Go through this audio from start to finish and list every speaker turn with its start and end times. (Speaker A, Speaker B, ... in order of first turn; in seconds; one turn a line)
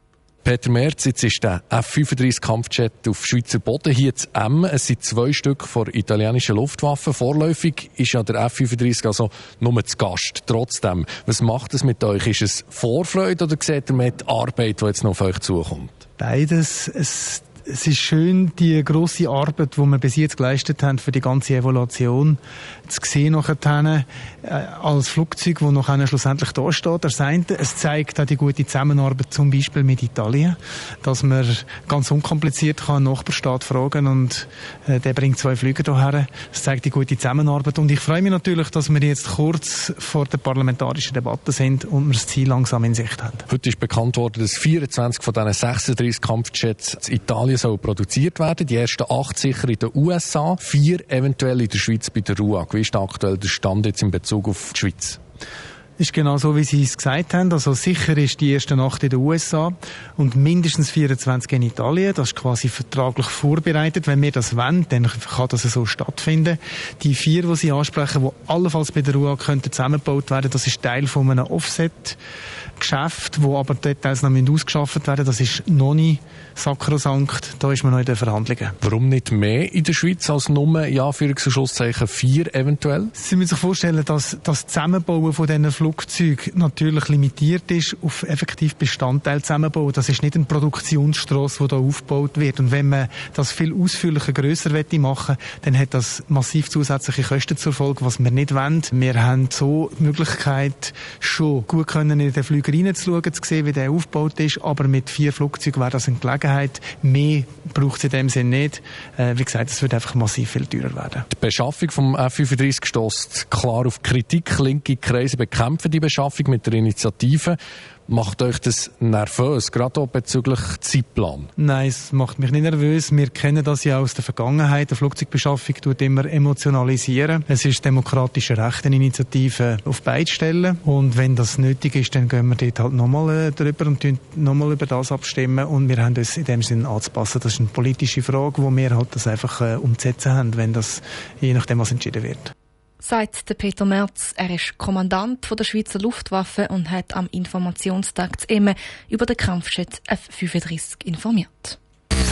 Speaker A: 0.4-15.9
Speaker B: 16.2-43.4
Speaker A: 43.5-55.2
Speaker B: 56.0-72.2
Speaker B: 72.8-78.8
Speaker A: 78.8-83.1
Speaker B: 83.2-111.3
Speaker A: 111.3-117.6
Speaker A: 118.1-121.5
Speaker B: 121.6-142.5
Speaker C: 143.0-151.8